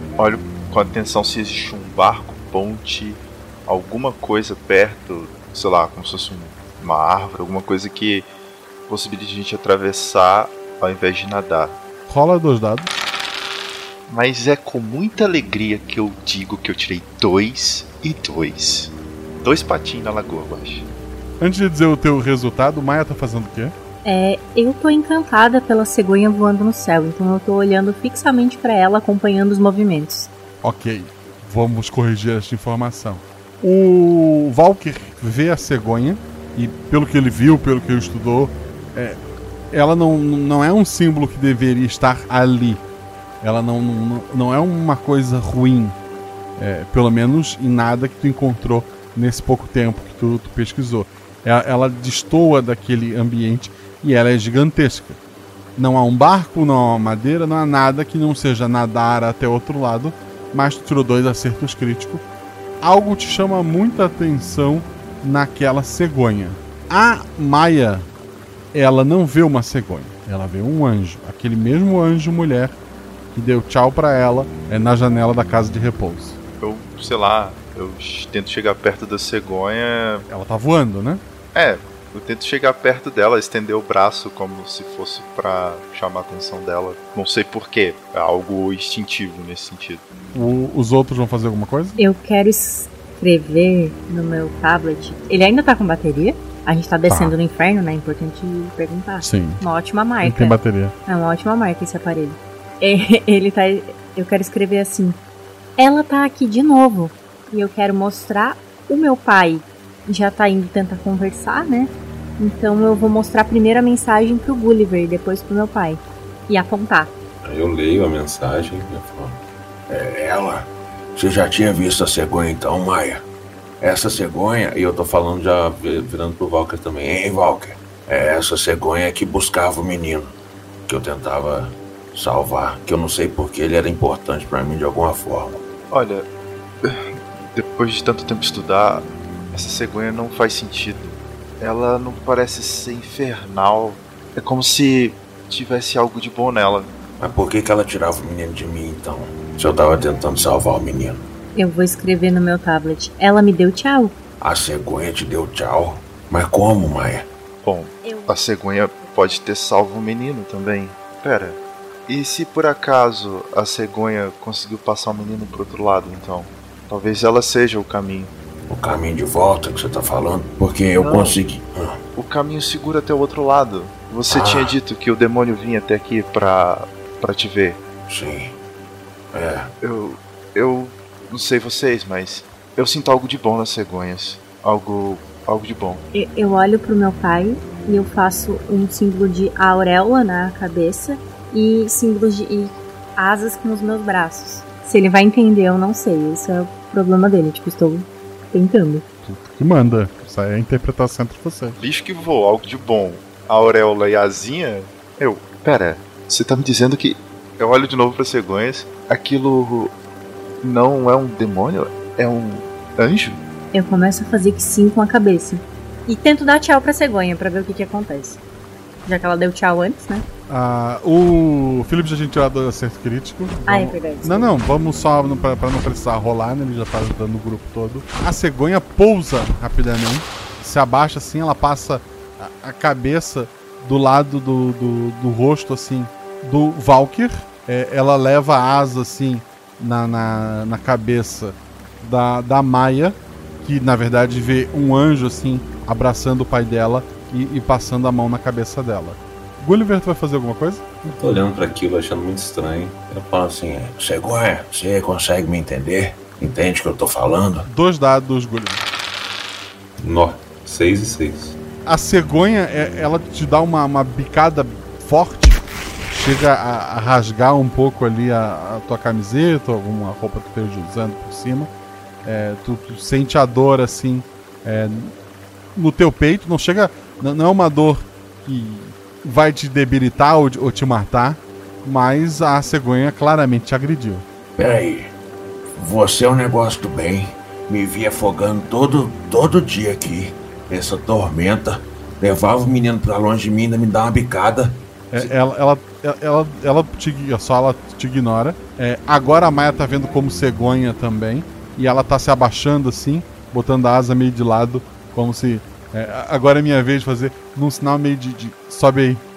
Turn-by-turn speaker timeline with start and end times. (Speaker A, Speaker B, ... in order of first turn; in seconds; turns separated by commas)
Speaker A: 0.2-8.3, Speaker A: 8.9-11.8, Speaker B: 12.1-12.9, Speaker A: 14.1-20.9, Speaker B: 21.4-23.7, Speaker C: 24.0-30.3, Speaker B: 30.6-39.2, Speaker B: 39.7-42.8, Speaker B: 43.4-46.0, Speaker B: 46.6-55.2, Speaker B: 55.8-62.2, Speaker B: 62.8-68.1, Speaker B: 68.7-72.8, Speaker B: 73.3-76.4, Speaker A: 76.6-80.2, Speaker B: 80.3-81.2, Speaker A: 81.5-90.0, Speaker B: 90.3-92.0, Speaker C: 92.0-105.2, Speaker B: 97.1-97.3, Speaker B: 99.2-99.6, Speaker B: 100.2-100.9, Speaker C: 105.8-117.1, Speaker D: 117.4-119.4, Speaker E: 119.9-123.2, Speaker E: 123.8-130.3, Speaker E: 130.9-135.6, Speaker A: 135.9-136.3, Speaker A: 136.8-146.9, Speaker E: 147.2-151.2, Speaker C: 151.6-154.2, Speaker E: 154.4-157.3, Speaker A: 157.6-168.3, Speaker C: 158.0-158.4, Speaker C: 159.0-159.3, Speaker E: 168.7-172.0, Speaker A: 171.0-171.4, Speaker A: 172.2-177.8, Speaker E: 174.3-174.8, Speaker E: 178.1-178.5, Speaker E: 179.3-179.7, Speaker A: 179.8-186.0, Speaker C: 186.1-199.0, Speaker B: 199.2-201.8, Speaker A: 201.8-209.9, Speaker A: 210.6-213.4, Speaker C: 213.7-218.4, Speaker C: 219.1-220.3, Speaker B: 220.5-250.8, Speaker C: 223.7-224.6, Speaker D: 251.0-253.8, Speaker E: 253.7-257.6, Speaker B: 257.6-258.8, Speaker D: 260.0-261.6, Speaker B: 261.9-271.7, Speaker B: 272.2-275.1, Speaker B: 275.8-284.2, Speaker E: 284.6-285.1, Speaker E: 285.8-295.3, Speaker B: 295.1-309.2